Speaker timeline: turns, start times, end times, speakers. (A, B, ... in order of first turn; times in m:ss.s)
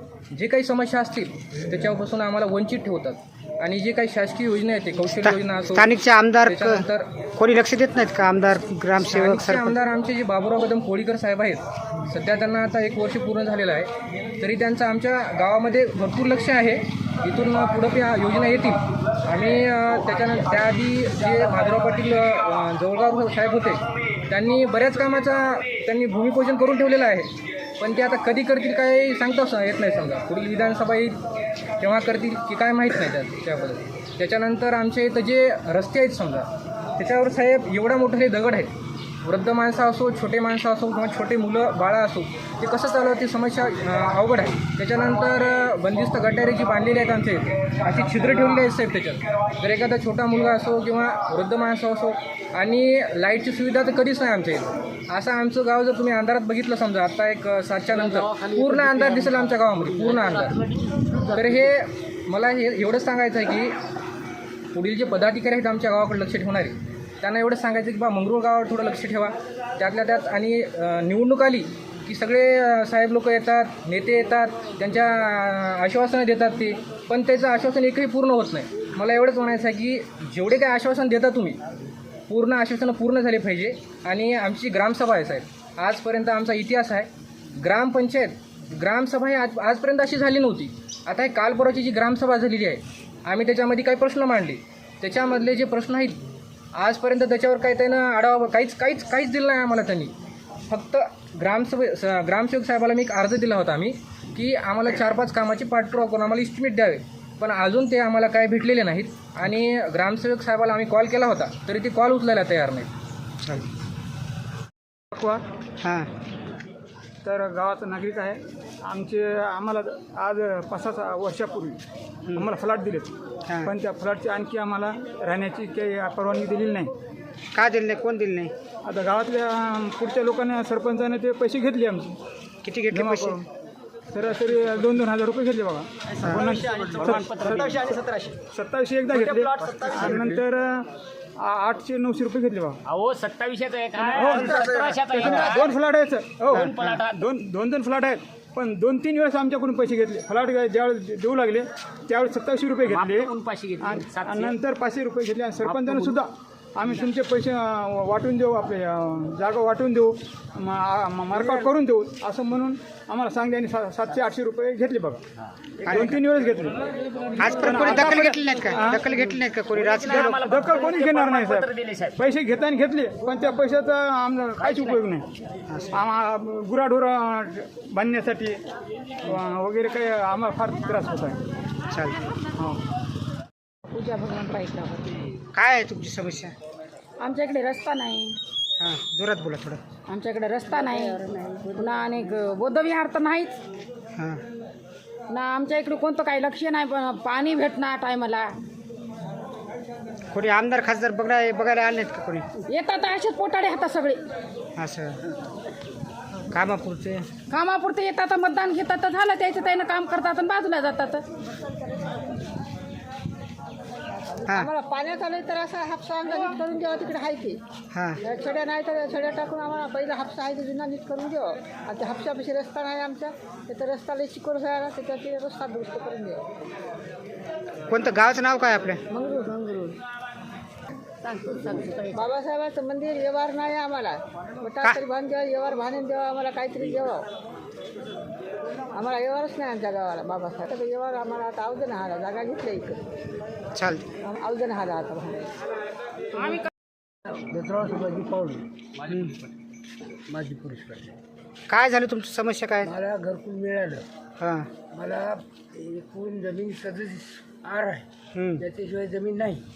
0:00.3-0:05.9 A
0:05.1-0:09.8 B
0:06.4-0:07.1 A
0:09.0-0:31.2 A
0:31.8-0:38.7 A
0:39.2-1:00.6 A
1:01.3-1:03.7 A
1:04.7-1:21.6 A
1:22.3-1:36.2 A
1:36.8-1:40.1 A
1:40.7-1:52.9 A
1:53.4-1:53.7 B
1:55.1-1:55.4 C
1:55.8-1:56.1 B
1:57.2-2:01.8 C
2:02.3-2:03.1 C
2:03.5-2:03.7 B
2:03.6-2:06.9 C
2:07.5-2:08.5 B
2:08.8-2:12.2 C
2:12.6-2:13.4 B
2:12.9-2:13.4 C
2:14.1-2:17.8 C
2:16.2-2:16.6 B
2:17.0-2:17.9 D
2:18.4-2:22.8 C
2:22.8-2:25.7 D
2:24.0-2:45.2 C
2:26.5-2:27.2 D
2:32.9-2:34.5 D
2:35.6-2:36.2 D
2:45.9-2:46.1 B
2:45.9-2:46.7 C
2:47.4-2:50.5 B
2:47.6-2:49.0 C
2:48.2-2:48.6 D
2:49.7-2:52.2 D
2:50.1-2:55.2 C
2:54.6-2:55.0 D
2:55.7-2:56.0 B
2:55.9-2:58.6 C
2:59.2-3:01.4 C
3:01.9-3:02.3 B
3:03.9-3:05.2 E
3:05.5-3:06.5 B
3:07.2-3:08.4 E
3:08.8-3:09.8 B
3:10.1-3:13.6 E
3:10.9-3:12.0 F
3:14.2-3:14.4 B
3:15.3-3:18.5 E
3:20.3-3:22.4 B
3:22.7-3:24.2 E
3:24.8-3:25.2 B
3:26.5-3:27.2 B
3:27.5-3:31.2 E
3:34.5-3:37.6 F
3:37.9-3:38.2 B
3:38.2-3:46.4 F
3:47.9-3:49.0 B
3:49.1-3:50.0 F
3:51.4-3:57.2 F
3:58.9-4:03.0 F
4:03.7-4:04.1 B
4:04.2-4:05.5 F
4:07.2-4:08.7 G
4:09.1-4:09.3 B
4:10.3-4:11.2 G
4:11.7-4:12.9 B
4:12.8-4:14.0 G
4:14.4-4:14.7 B
4:14.9-4:18.0 G
4:18.3-4:18.6 B
4:18.6-4:19.6 G